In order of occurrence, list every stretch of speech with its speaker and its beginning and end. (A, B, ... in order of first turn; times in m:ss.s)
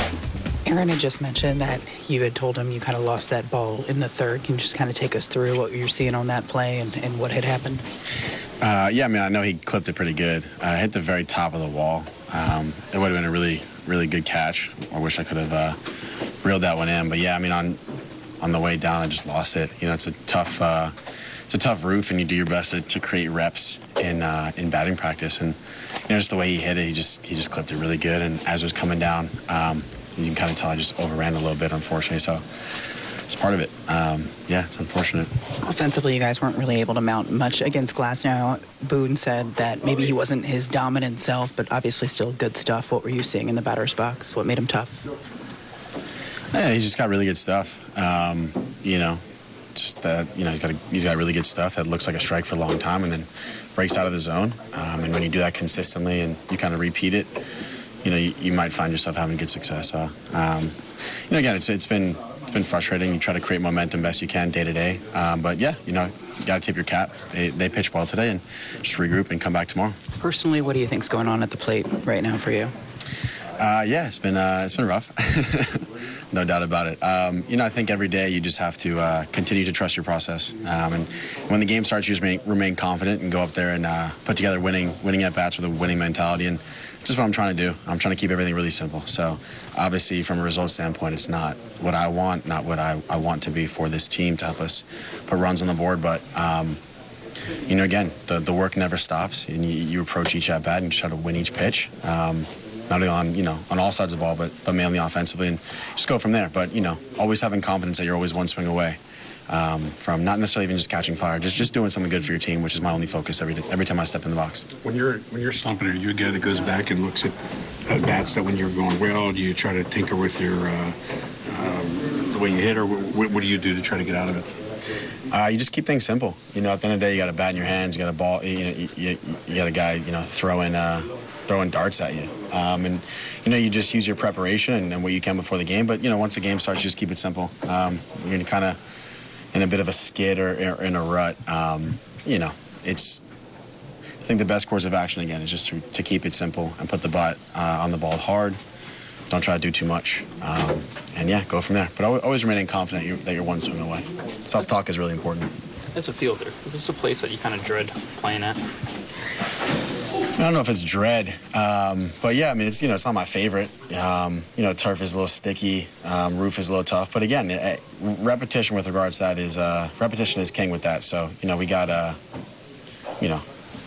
0:00.6-0:07.8 A
0:08.6-0:15.8 B
0:16.4-0:17.8 B
0:18.4-0:20.9 B
0:21.5-0:32.4 B
0:33.3-0:35.3 B
0:35.6-0:45.0 A
0:46.5-0:49.2 B
0:49.8-0:57.3 B
0:58.0-1:00.8 B
1:01.3-1:10.0 B
1:10.2-1:12.7 A
1:13.6-1:36.8 B
1:37.7-1:49.0 B
1:49.5-1:54.6 B
1:54.8-2:01.0 C
2:01.5-2:04.6 C
2:05.3-2:18.8 B
2:19.5-2:23.2 B
2:24.2-2:28.6 B
2:29.3-2:35.5 B
2:35.9-2:38.6 D
2:40.4-2:52.2 B